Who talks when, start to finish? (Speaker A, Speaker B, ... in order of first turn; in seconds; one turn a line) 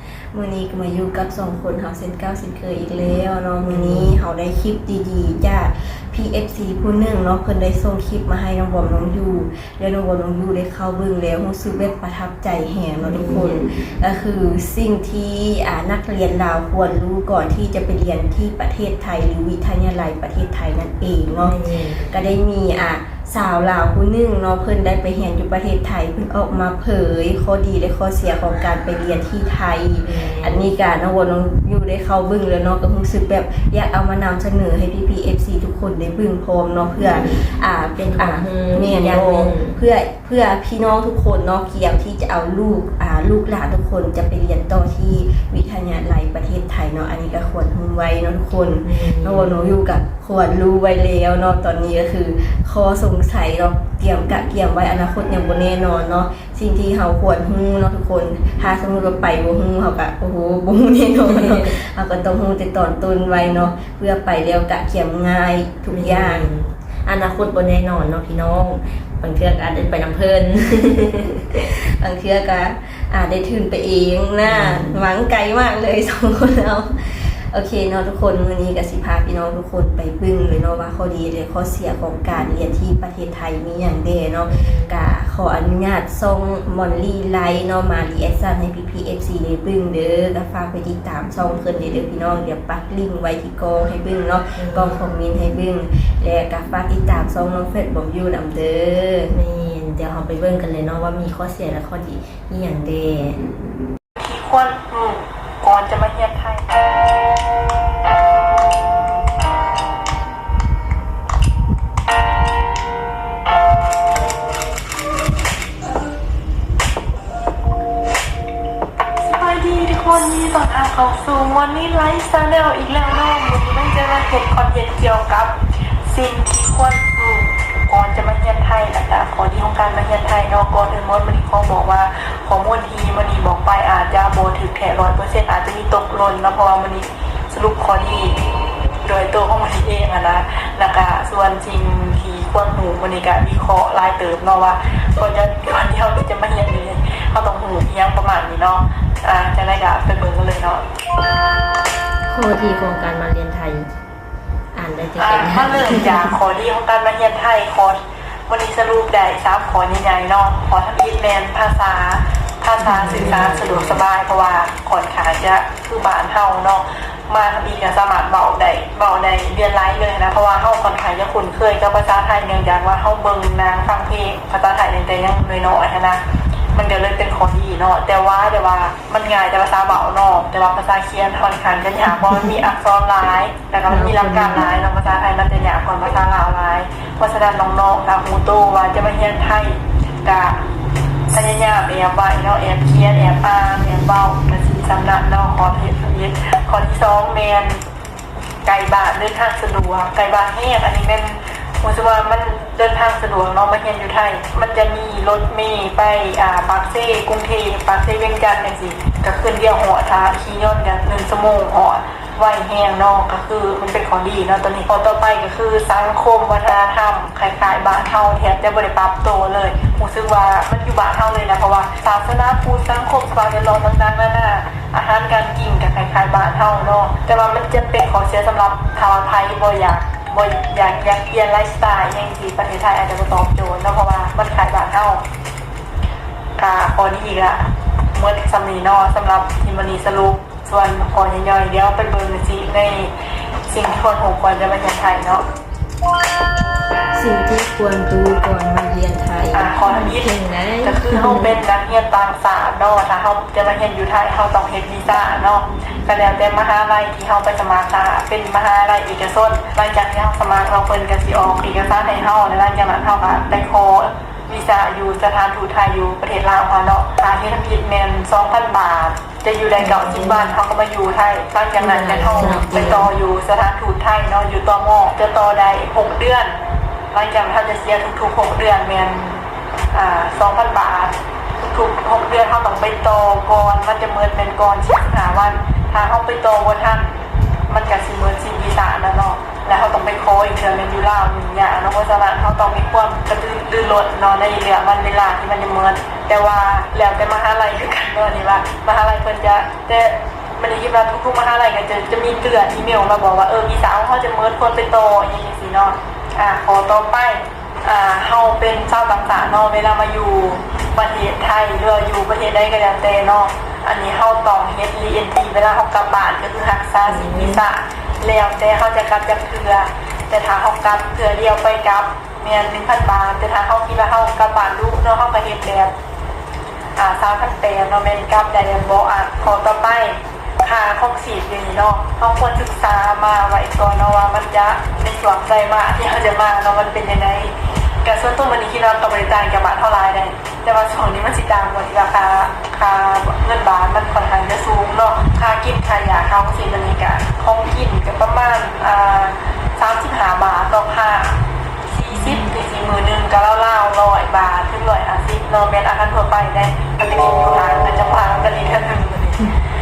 Speaker A: 0.3-66.5
Speaker B: 3.6-4.1
Speaker B: 13.0-13.6
Speaker B: 21.4-22.1
Speaker B: 30.0-30.7
Speaker B: 38.0-39.8
Speaker B: 48.8-49.5
Speaker B: 65.9-71.5
Speaker A: 71.5-99.3
Speaker B: 74.4-75.0
Speaker B: 84.5-84.9
Speaker B: 94.5-95.0
Speaker B: 99.3-103.5
Speaker C: 104.2-106.7
Speaker C: 119.2-138.4
Speaker C: 139.0-150.8
Speaker B: 152.3-153.9
Speaker B: 154.7-156.3
Speaker C: 155.2-176.2
Speaker B: 162.8-164.0
Speaker C: 176.7-190.6
Speaker B: 183.9-184.6
Speaker C: 191.3-197.8
Speaker C: 198.6-235.2
Speaker C: 236.6-243.1
Speaker C: 243.7-245.4
Speaker A: 247.1-251.5
Speaker C: 249.5-250.3
Speaker C: 250.8-276.6
Speaker B: 269.8-270.5
Speaker B: 271.8-273.1
Speaker A: 272.3-273.0
Speaker C: 277.1-287.1
Speaker C: 287.7-325.9
Speaker B: 317.1-317.6
Speaker C: 326.9-359.5